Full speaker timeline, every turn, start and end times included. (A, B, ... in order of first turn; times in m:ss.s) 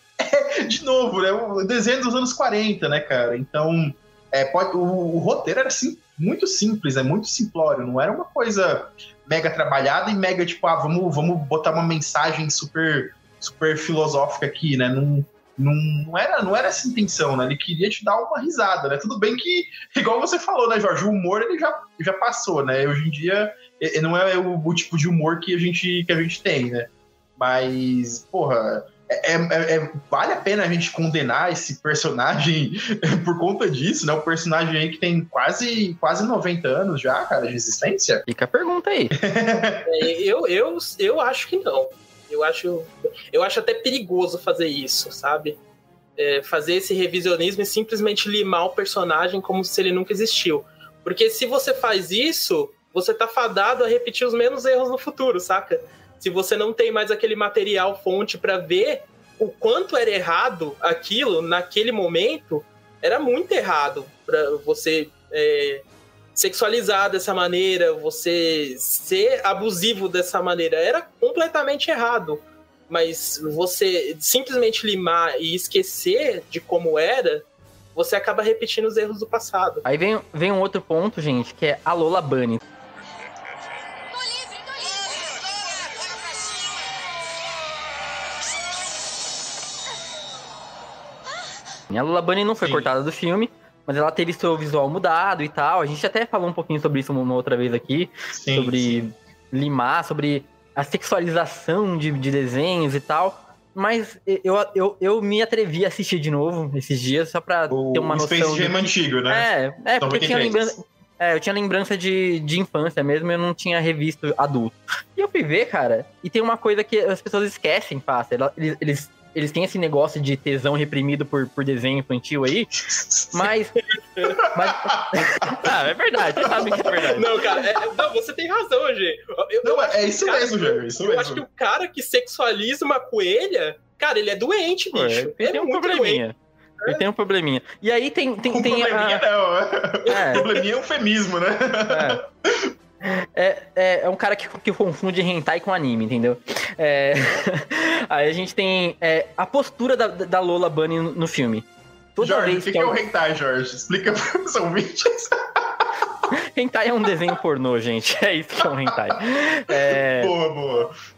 0:00.2-0:38.2 A
0:38.3-0:39.1 B
0:39.1-0:39.8 A
0:39.8-0:45.6 C
0:46.2-1:05.8 C
1:06.4-1:19.8 C
1:19.8-1:22.6 B
1:31.9-2:02.7 B
1:32.6-1:32.9 A
1:38.3-1:39.1 A
1:47.7-1:50.8 A
2:02.7-2:03.5 A
2:03.3-2:03.7 B
2:04.3-2:05.7 A
2:04.5-2:07.3 B
2:06.4-2:07.2 A
2:07.2-2:16.2 C
2:09.6-2:11.4 A
2:14.9-2:16.3 B
2:16.9-2:19.2 B
2:18.5-2:22.7 A
2:20.0-2:20.4 B
2:20.1-2:20.6 C
2:21.9-2:22.2 B
2:23.0-2:33.0 B
2:32.2-2:35.8 A
2:36.6-2:40.3 B
2:38.9-2:39.2 A
2:39.7-2:40.9 A